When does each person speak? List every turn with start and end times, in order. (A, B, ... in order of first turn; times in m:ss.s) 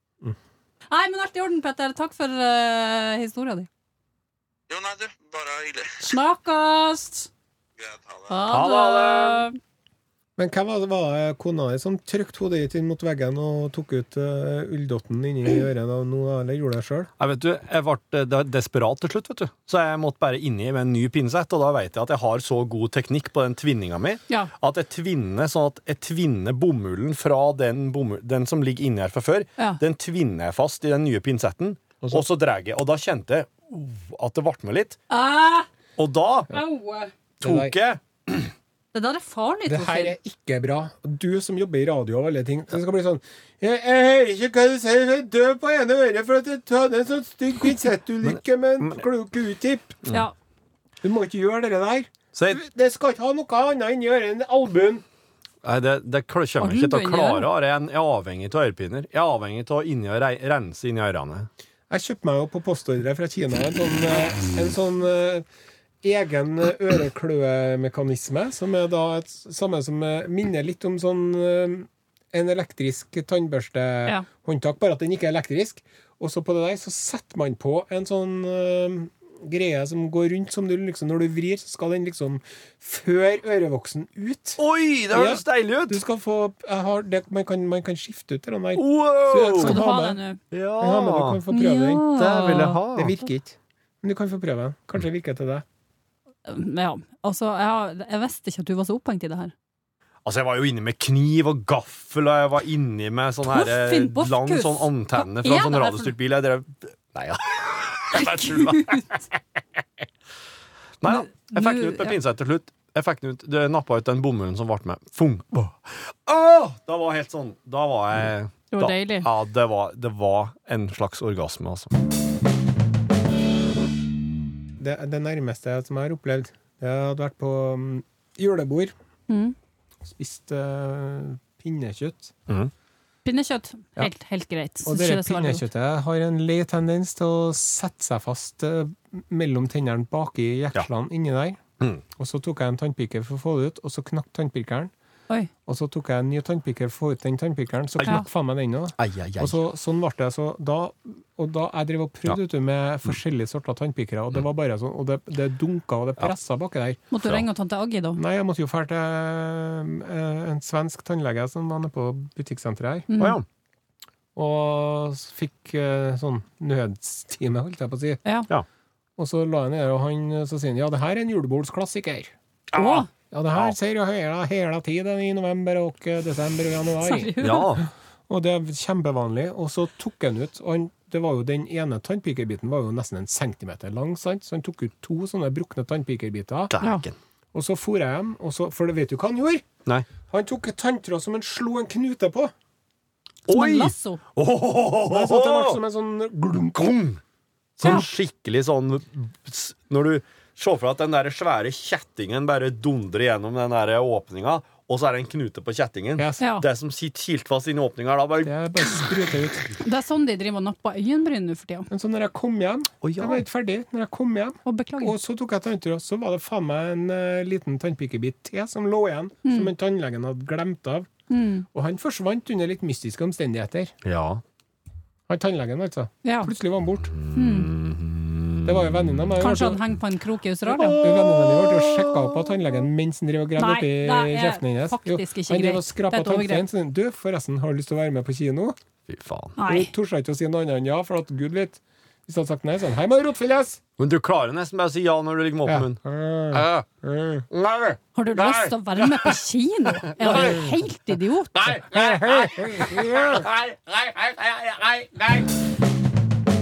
0:00.9-0:03.7 A
0:04.7-0:06.1 B
0:06.0-0:07.3 A
0:07.8-0:08.5 B
0:08.3-0:09.6 A
0:08.5-0:09.4 C
0:10.4-0:17.1 D
0:17.2-0:35.0 C
0:35.1-0:35.7 A
0:36.0-0:36.5 C
0:36.5-0:37.1 A
0:37.4-0:37.7 D
0:37.4-0:38.5 C
0:38.9-0:40.2 A
0:39.7-0:50.0 D
0:48.3-0:49.0 C
0:50.1-0:50.3 A
0:51.0-0:55.0 D
0:52.3-0:52.6 C
0:55.6-1:01.5 C
0:56.6-0:57.5 A
1:01.9-1:05.5 D
1:06.0-1:24.6 D
1:24.6-1:26.0 C
1:25.1-1:30.2 D
1:28.8-1:29.8 C
1:29.6-1:30.4 A
1:30.5-1:31.4 C
1:30.8-1:32.1 D
1:31.5-1:32.8 A
1:32.2-1:33.2 C
1:32.9-1:35.6 D
1:36.5-1:39.5 A
1:40.2-1:49.1 C
1:43.5-1:46.1 A
1:48.2-1:49.1 A
1:51.0-2:01.9 C
1:51.0-1:52.2 A
1:58.7-1:59.3 A
2:04.8-2:08.9 D
2:09.3-2:09.6 A
2:10.0-2:12.3 D
2:13.2-2:15.6 A
2:14.9-2:21.6 D
2:22.2-2:24.9 D
2:25.7-2:37.0 D
2:28.0-2:28.2 C
2:29.0-2:29.6 C
2:37.1-2:38.2 A
2:38.2-2:43.1 D
2:43.1-2:43.4 A
2:43.2-2:43.4 C
2:44.4-2:48.2 D
2:49.2-2:52.3 D
2:52.7-2:53.8 C
2:52.8-2:53.1 A
2:53.3-3:06.7 D
2:57.0-2:57.8 A
2:57.4-2:57.9 C
3:06.7-3:07.2 C
3:07.5-3:09.7 D
3:10.3-3:12.5 D
3:13.5-3:15.8 C
3:13.5-3:14.2 A
3:15.1-3:17.0 D
3:16.8-3:17.2 C
3:17.8-3:28.5 C
3:26.2-3:26.4 D
3:26.4-3:26.6 A
3:28.4-3:29.7 D
3:29.8-3:31.9 A
3:31.9-3:41.1 D
3:33.0-3:33.4 C
3:34.6-3:35.2 A
3:39.4-3:39.7 A
3:41.3-3:41.7 A
3:41.7-3:44.0 D
3:44.0-3:44.4 C
3:45.3-3:47.1 D
3:46.2-3:46.5 A
3:47.1-3:49.4 C
3:47.3-3:47.7 A
3:48.6-3:49.8 D
3:49.4-3:51.0 A
3:50.8-3:52.5 C
3:50.9-3:58.8 D
3:53.6-3:56.6 A
3:59.1-3:59.6 C
3:59.6-3:59.9 A
3:59.7-4:03.8 D
4:04.0-4:06.0 C
4:05.7-4:07.5 D
4:06.5-4:06.9 C
4:07.5-4:08.7 C
4:08.2-4:11.6 A
4:10.1-4:10.7 C
4:11.6-4:15.5 C
4:11.8-4:13.5 D